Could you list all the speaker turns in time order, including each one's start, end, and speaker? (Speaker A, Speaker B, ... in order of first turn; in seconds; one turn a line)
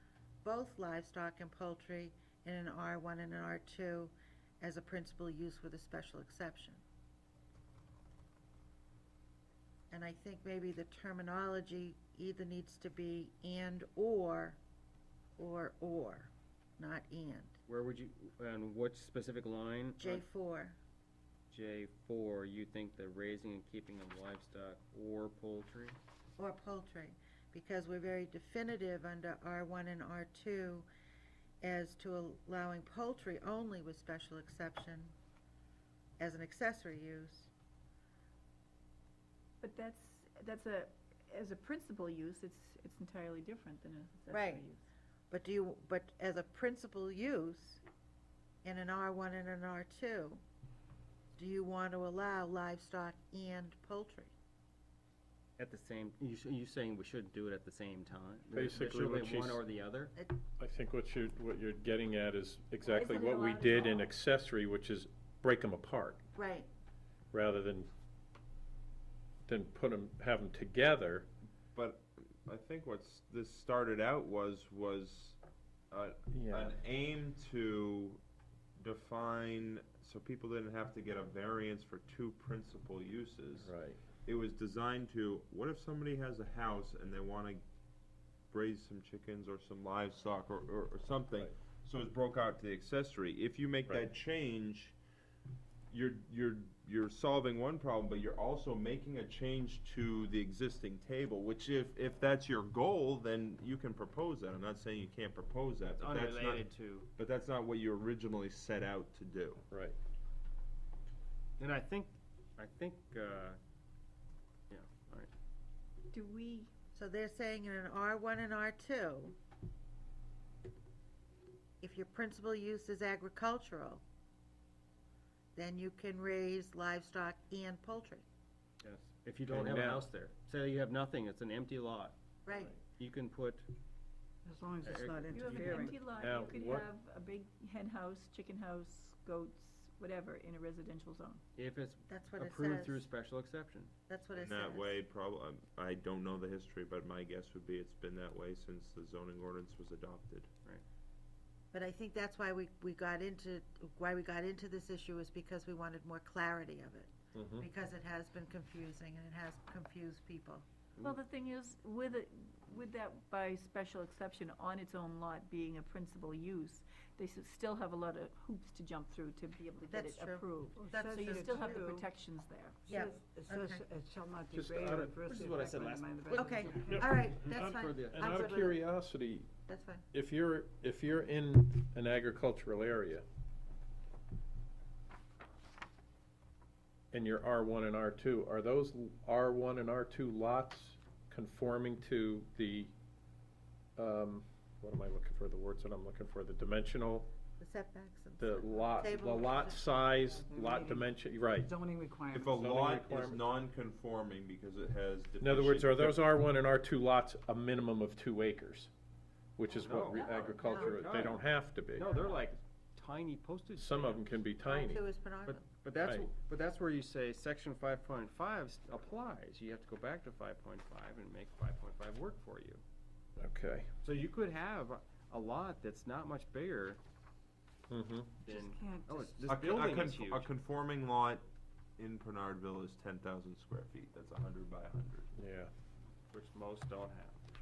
Speaker A: 0.4-6.8
Speaker A: 9.9-14.6
Speaker A: 15.4-17.6
Speaker B: 17.7-20.2
Speaker A: 20.0-20.8
Speaker B: 21.5-26.0
Speaker A: 26.4-30.9
Speaker A: 31.6-35.1
Speaker A: 36.2-37.5
Speaker C: 39.6-44.8
Speaker A: 44.3-44.6
Speaker A: 45.3-47.8
Speaker A: 48.6-50.4
Speaker A: 51.4-54.3
Speaker B: 55.6-60.1
Speaker D: 58.5-59.6
Speaker D: 60.6-66.2
Speaker C: 62.9-64.1
Speaker A: 66.3-66.7
Speaker D: 67.3-67.9
Speaker D: 69.5-71.3
Speaker E: 71.7-75.4
Speaker E: 75.9-78.2
Speaker D: 76.3-76.7
Speaker E: 78.8-87.6
Speaker D: 83.6-84.0
Speaker E: 88.5-95.0
Speaker E: 95.9-109.6
Speaker B: 105.9-107.1
Speaker D: 109.7-110.0
Speaker B: 111.6-113.6
Speaker B: 114.7-115.3
Speaker C: 116.1-116.7
Speaker A: 116.9-119.3
Speaker A: 121.8-124.0
Speaker A: 125.5-128.2
Speaker B: 128.8-132.2
Speaker D: 129.4-130.1
Speaker A: 132.4-132.8
Speaker B: 133.0-133.7
Speaker F: 134.4-136.0
Speaker B: 134.8-135.7
Speaker C: 135.3-141.4
Speaker D: 136.1-136.9
Speaker B: 141.6-143.9
Speaker A: 142.1-143.1
Speaker A: 144.1-145.0
Speaker E: 144.3-150.5
Speaker A: 151.7-160.6
Speaker D: 157.3-157.7
Speaker C: 161.0-172.9
Speaker A: 169.9-171.9
Speaker F: 170.7-172.1
Speaker F: 172.8-177.2
Speaker A: 172.9-173.8
Speaker D: 174.5-175.1
Speaker B: 174.8-178.6
Speaker A: 176.3-178.8
Speaker D: 176.9-179.5
Speaker A: 179.7-180.1
Speaker D: 180.1-183.2
Speaker D: 187.1-192.9
Speaker D: 194.0-197.3
Speaker A: 197.6-199.9
Speaker D: 198.4-201.7
Speaker F: 200.2-202.6
Speaker E: 202.3-206.3
Speaker D: 202.5-203.4
Speaker D: 205.4-208.9
Speaker D: 209.6-212.1
Speaker B: 209.7-211.4
Speaker A: 210.6-211.0
Speaker B: 212.0-214.2
Speaker D: 213.8-215.0
Speaker A: 214.6-215.6
Speaker B: 215.4-222.8
Speaker D: 216.0-216.3
Speaker D: 223.4-223.9
Speaker B: 224.0-227.0
Speaker D: 227.9-228.4
Speaker B: 228.4-230.5
Speaker F: 228.5-229.6
Speaker E: 229.5-231.4
Speaker E: 232.0-235.3
Speaker D: 235.4-235.7
Speaker B: 236.3-237.4